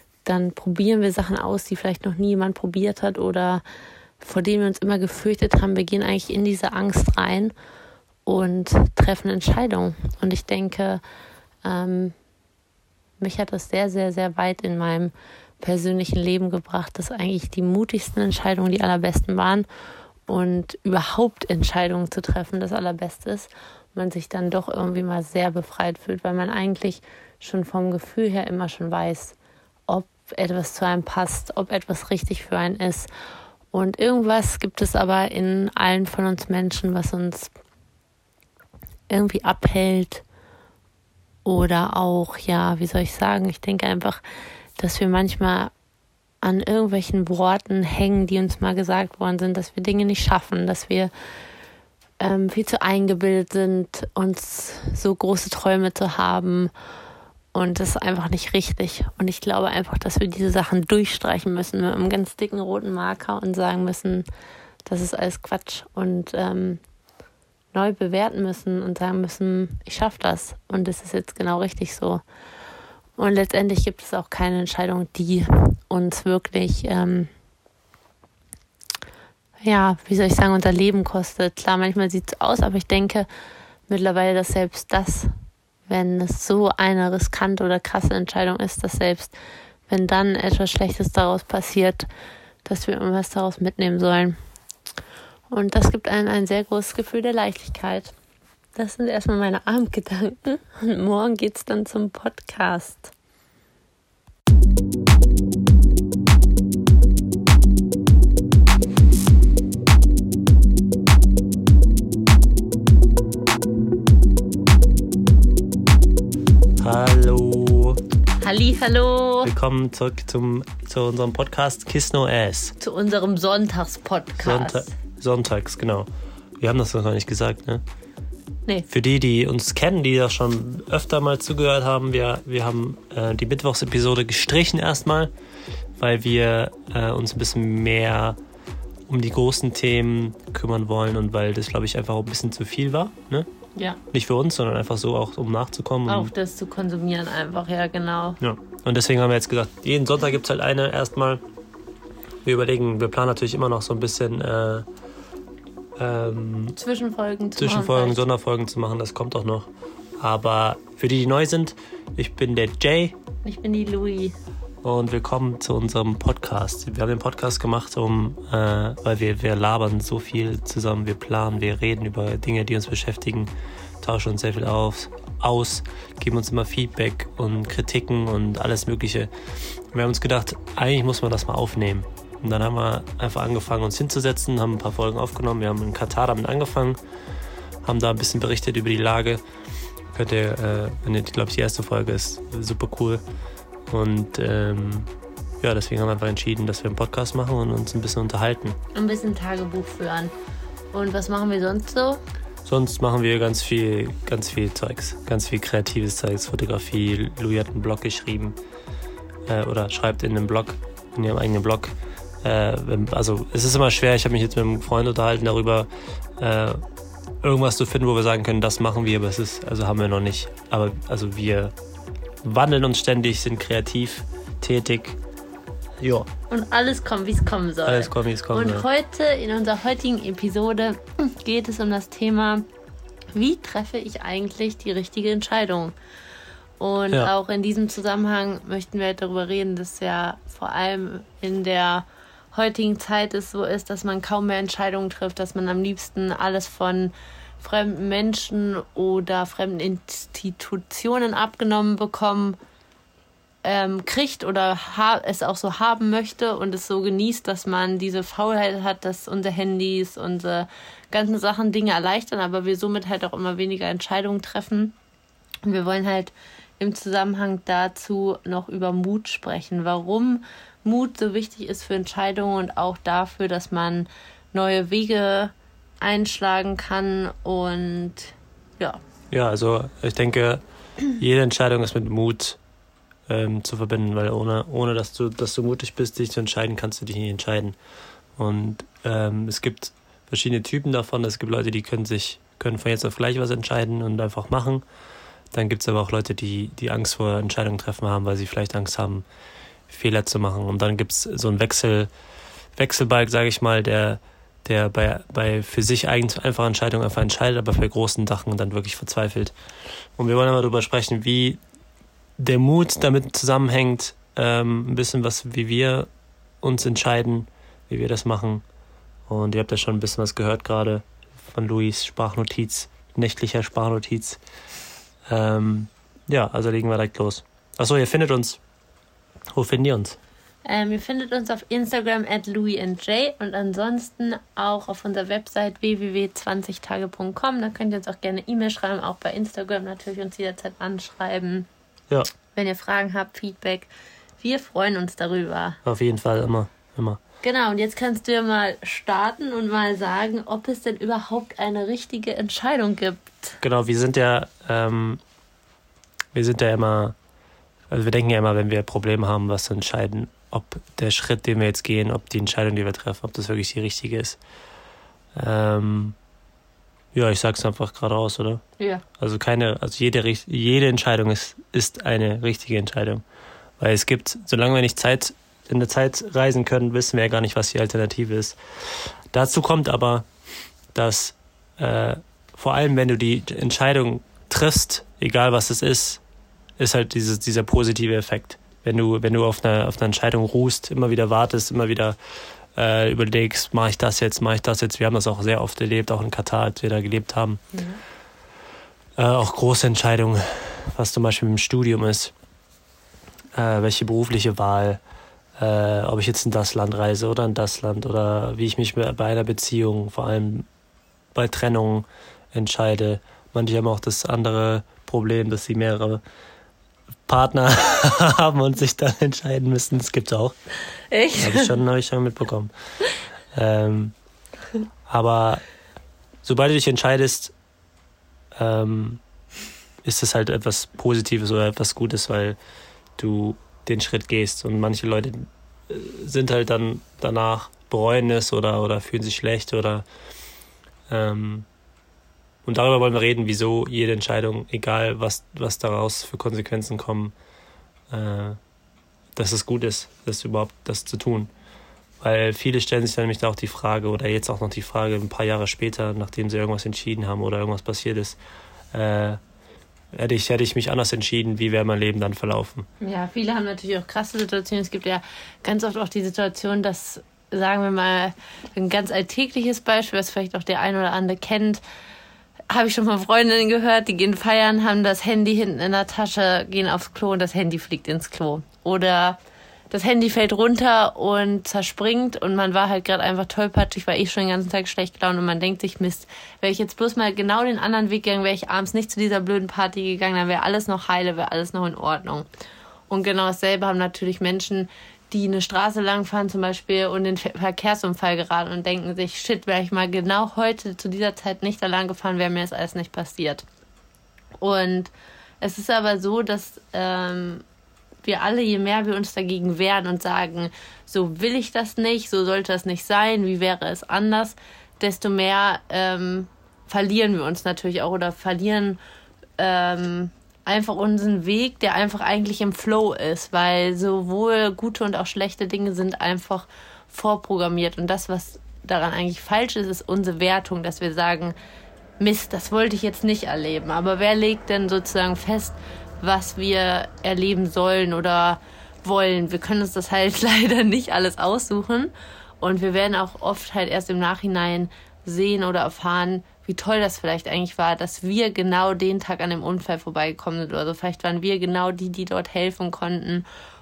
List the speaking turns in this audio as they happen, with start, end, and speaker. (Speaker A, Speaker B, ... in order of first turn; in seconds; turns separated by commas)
Speaker A: 0.2-3.6, Speaker A: 4.2-7.5, Speaker A: 8.2-11.0, Speaker A: 11.6-12.1, Speaker A: 13.2-19.6, Speaker A: 20.3-29.3, Speaker A: 29.9-33.1, Speaker A: 33.7-37.5, Speaker A: 39.1-40.2, Speaker A: 41.4-44.2, Speaker A: 44.8-45.7, Speaker A: 46.4-51.1, Speaker A: 52.2-56.7, Speaker A: 57.5-64.2, Speaker A: 64.8-66.8, Speaker A: 67.7-72.2, Speaker A: 73.2-77.3, Speaker A: 79.6-83.3, Speaker A: 83.9-85.3, Speaker A: 85.9-89.3, Speaker A: 89.9-92.1, Speaker A: 92.7-94.4, Speaker A: 95.5-98.1, Speaker A: 98.8-103.1, Speaker B: 116.8-118.0, Speaker A: 118.4-119.5, Speaker B: 119.4-122.7, Speaker A: 122.8-124.9, Speaker B: 124.4-126.1, Speaker B: 126.6-127.8, Speaker B: 128.9-135.3, Speaker B: 136.0-138.4, Speaker B: 139.1-143.5, Speaker B: 144.1-146.3, Speaker A: 146.1-148.4, Speaker B: 148.4-151.4, Speaker B: 152.4-154.8, Speaker B: 156.0-156.8, Speaker A: 156.8-158.2, Speaker B: 157.6-163.2, Speaker A: 163.4-164.4, Speaker B: 164.8-173.5, Speaker B: 174.0-179.3, Speaker B: 179.9-187.0, Speaker B: 187.8-189.4, Speaker B: 190.1-193.2, Speaker B: 193.9-195.1, Speaker B: 195.6-198.8, Speaker A: 198.9-200.3, Speaker A: 200.9-202.2, Speaker B: 202.7-208.6, Speaker B: 209.4-216.8, Speaker B: 217.4-221.7, Speaker B: 222.4-225.2, Speaker B: 226.0-226.3, Speaker A: 226.5-232.7, Speaker B: 227.8-228.8, Speaker A: 233.3-235.9, Speaker A: 236.8-252.6, Speaker A: 253.6-264.9, Speaker A: 265.6-279.0, Speaker B: 279.3-280.6, Speaker B: 281.2-282.6, Speaker B: 283.3-287.8, Speaker B: 288.4-294.8, Speaker B: 295.5-299.2, Speaker B: 299.9-302.1, Speaker B: 302.8-309.5, Speaker B: 310.2-311.6, Speaker B: 312.4-316.1, Speaker B: 316.6-318.6, Speaker B: 319.3-324.4, Speaker B: 325.3-328.6, Speaker B: 329.5-330.2, Speaker A: 330.6-341.7, Speaker A: 342.6-343.9, Speaker A: 344.4-345.8, Speaker B: 345.8-347.2, Speaker A: 347.4-353.6, Speaker B: 353.6-355.2, Speaker B: 356.3-357.1, Speaker B: 357.9-364.4, Speaker B: 365.3-366.1, Speaker B: 367.1-368.6, Speaker A: 368.8-369.0, Speaker B: 369.2-373.2, Speaker B: 373.8-380.2, Speaker B: 380.9-386.2, Speaker B: 386.8-392.1, Speaker B: 392.7-397.6, Speaker A: 397.7-398.0, Speaker B: 399.2-402.3, Speaker B: 403.5-405.0, Speaker B: 405.6-410.7, Speaker B: 411.3-416.2, Speaker B: 417.3-420.5, Speaker A: 421.1-421.8, Speaker B: 421.3-422.7, Speaker B: 423.5-424.1, Speaker B: 425.1-425.6, Speaker B: 426.4-427.5, Speaker B: 428.5-429.2, Speaker B: 430.0-432.6, Speaker B: 433.2-440.0, Speaker B: 441.1-441.6, Speaker B: 442.6-447.3, Speaker B: 448.1-448.6, Speaker B: 449.3-451.5, Speaker B: 452.2-458.4, Speaker B: 458.9-459.4, Speaker B: 460.1-462.9, Speaker A: 463.0-471.8, Speaker A: 472.7-479.4, Speaker A: 479.9-492.5, Speaker A: 493.1-503.6, Speaker A: 504.6-507.6, Speaker A: 508.2-519.0, Speaker A: 519.6-531.5, Speaker A: 532.2-553.4